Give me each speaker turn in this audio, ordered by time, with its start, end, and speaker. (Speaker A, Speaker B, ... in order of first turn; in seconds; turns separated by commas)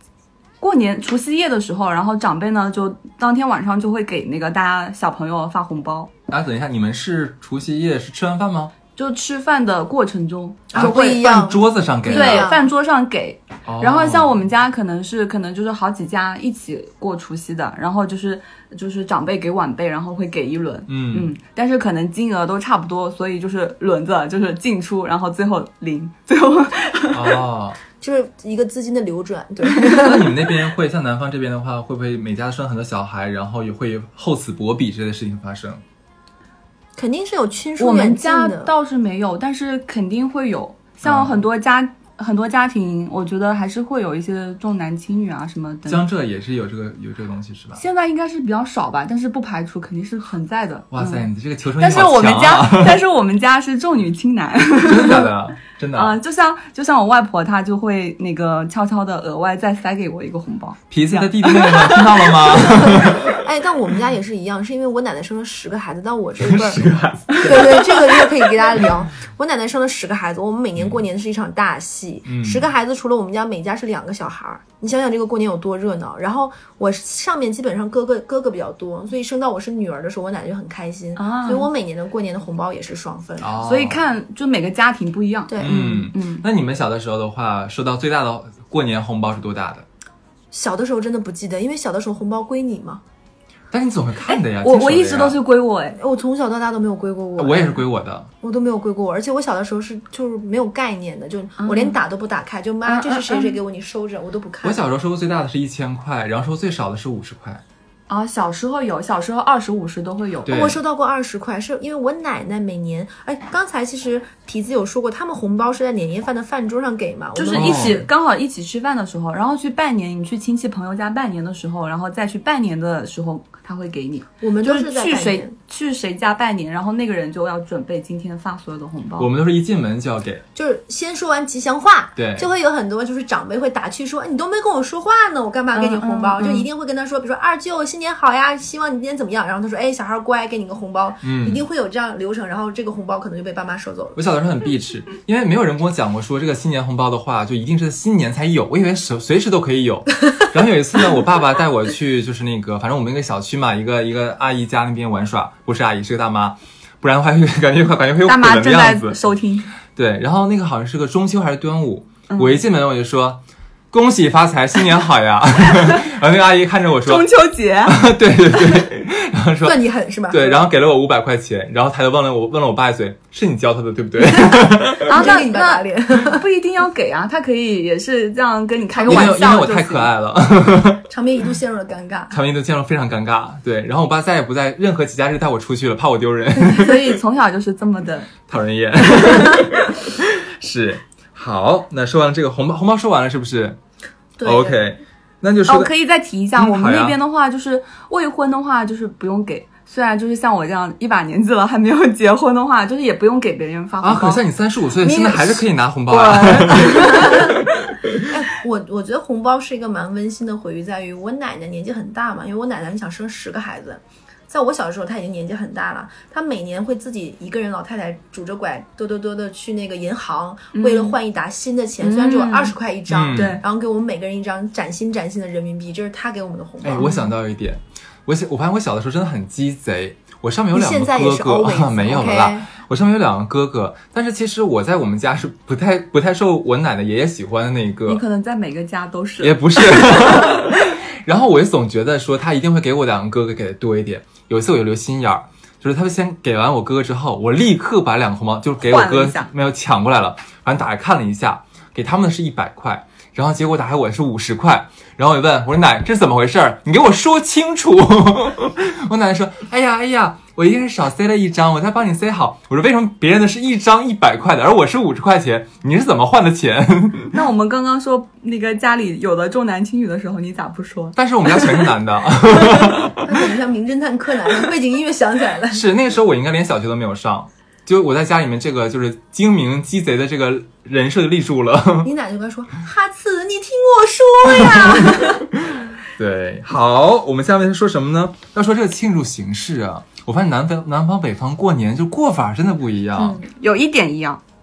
Speaker A: 0.6-6.1, Speaker B: 6.3-8.7, Speaker A: 8.9-11.3, Speaker C: 10.7-12.6, Speaker B: 10.7-12.5, Speaker A: 12.1-27.4, Speaker B: 13.7-14.4, Speaker B: 20.9-21.3, Speaker B: 27.1-27.8, Speaker C: 28.0-30.5, Speaker A: 29.7-30.1, Speaker B: 29.9-35.8, Speaker C: 37.0-38.7, Speaker A: 37.8-46.0, Speaker B: 41.0-41.4, Speaker B: 45.9-47.8, Speaker A: 47.8-51.2, Speaker B: 50.9-53.0, Speaker A: 51.8-55.3, Speaker B: 54.8-56.2, Speaker A: 55.9-63.1, Speaker B: 60.9-63.3, Speaker C: 62.7-83.5, Speaker B: 66.4-68.1, Speaker B: 72.2-72.7, Speaker A: 81.2-81.7, Speaker B: 83.4-84.0, Speaker A: 83.6-86.4, Speaker C: 85.5-85.8, Speaker B: 85.6-89.8, Speaker C: 90.5-93.0, Speaker B: 93.7-95.4, Speaker A: 94.3-96.0, Speaker C: 96.0-97.8, Speaker B: 97.4-98.3, Speaker C: 98.4-104.8, Speaker A: 101.6-102.0, Speaker A: 102.8-103.6, Speaker B: 104.6-107.6, Speaker A: 108.1-110.6, Speaker B: 110.5-110.8, Speaker C: 110.5-118.0, Speaker A: 117.3-129.3, Speaker B: 117.5-118.0, Speaker C: 124.4-125.5, Speaker B: 129.2-130.4, Speaker C: 130.5-144.2, Speaker B: 132.2-132.5, Speaker A: 135.7-136.7, Speaker B: 141.2-141.6, Speaker B: 144.2-159.2, Speaker A: 158.2-159.7, Speaker B: 159.9-163.4, Speaker A: 162.3-162.6, Speaker B: 163.9-167.3, Speaker A: 167.0-168.0, Speaker B: 167.8-175.2, Speaker C: 169.6-170.6, Speaker C: 174.5-176.4, Speaker A: 175.1-180.1, Speaker C: 179.0-179.4, Speaker B: 179.1-181.0, Speaker C: 181.1-182.4, Speaker B: 182.3-187.2, Speaker A: 186.6-188.3, Speaker B: 188.5-193.8, Speaker C: 194.4-194.8, Speaker B: 194.4-195.9, Speaker A: 195.7-204.4, Speaker B: 196.5-197.2, Speaker B: 204.0-207.4, Speaker A: 205.0-207.7, Speaker C: 208.3-227.1, Speaker A: 220.7-221.2, Speaker A: 222.0-222.7, Speaker B: 223.1-223.6, Speaker A: 223.3-223.6, Speaker B: 226.8-238.2, Speaker A: 227.0-227.3, Speaker C: 230.7-232.7, Speaker A: 238.1-240.7, Speaker B: 239.4-267.3, Speaker A: 248.8-249.5, Speaker A: 267.3-271.9, Speaker B: 271.1-273.4, Speaker C: 273.1-275.8, Speaker B: 275.7-282.1, Speaker C: 282.0-285.5, Speaker B: 284.5-293.4, Speaker A: 293.2-294.4